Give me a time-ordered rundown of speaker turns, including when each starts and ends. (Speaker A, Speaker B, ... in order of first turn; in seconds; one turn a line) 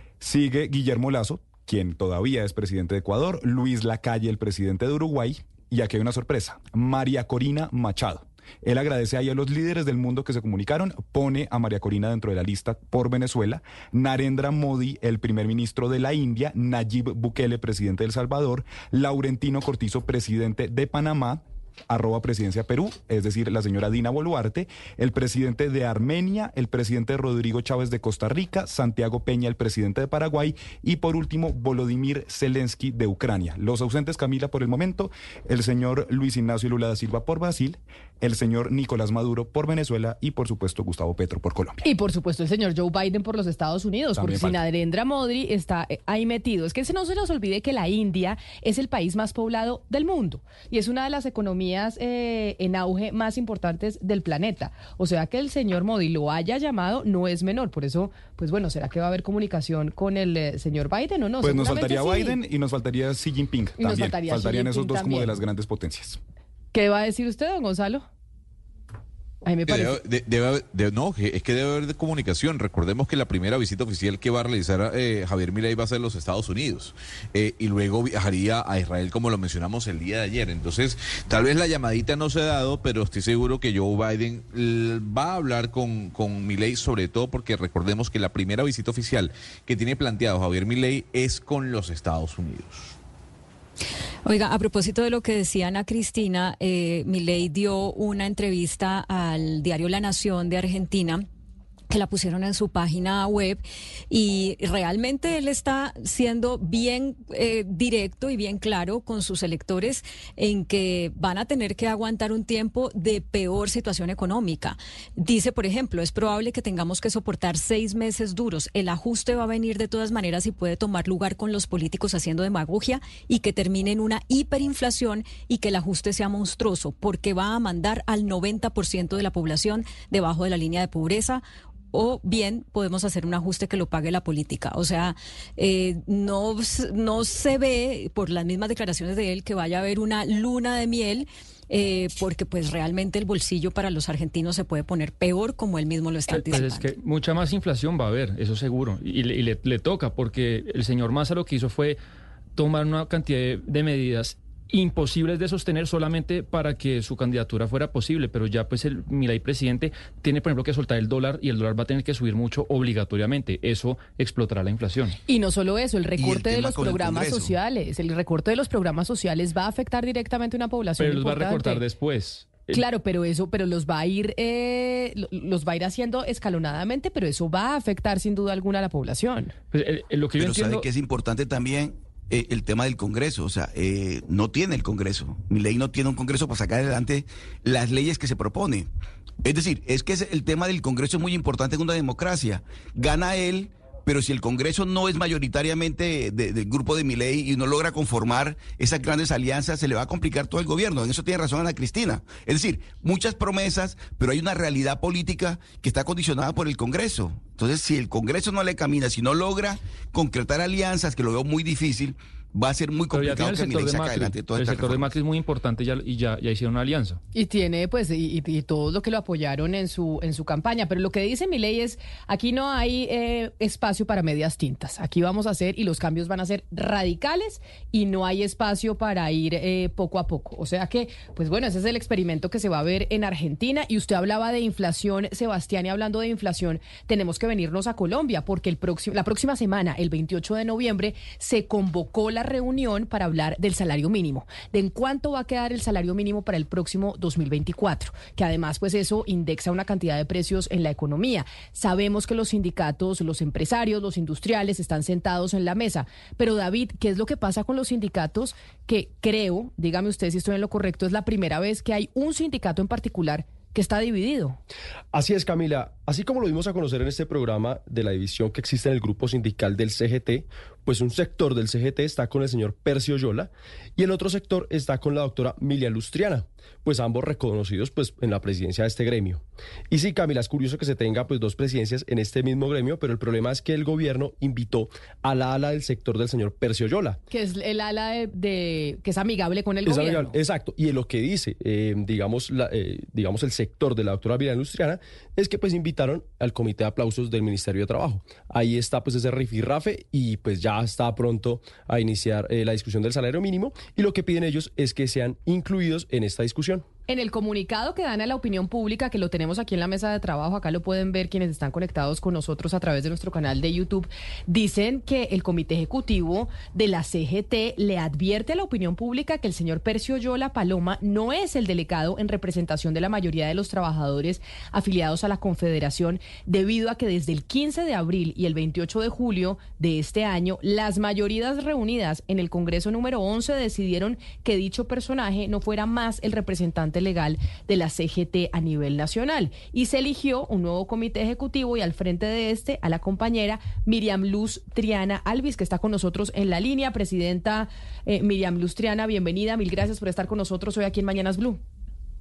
Speaker A: 0.2-41.8
Speaker B: 41.8-62.4
Speaker A: 44.2-44.6
Speaker A: 61.4-66.2
Speaker B: 63.8-65.4
Speaker B: 66.7-68.1
Speaker B: 69.4-70.0
Speaker C: 69.7-93.0
Speaker D: 94.3-101.3
Speaker D: 101.9-146.9
Speaker E: 146.3-152.0
Speaker E: 152.6-165.2
Speaker B: 165.3-171.8
Speaker F: 166.2-167.5
Speaker E: 171.0-172.8
Speaker B: 172.7-179.5
Speaker E: 179.7-180.9
Speaker F: 180.4-188.9
Speaker F: 189.4-215.2
Speaker E: 213.1-217.2
Speaker B: 217.3-264.6
Speaker G: 265.1-287.2
Speaker B: 287.3-290.4
Speaker G: 289.9-306.8
Speaker B: 307.1-351.6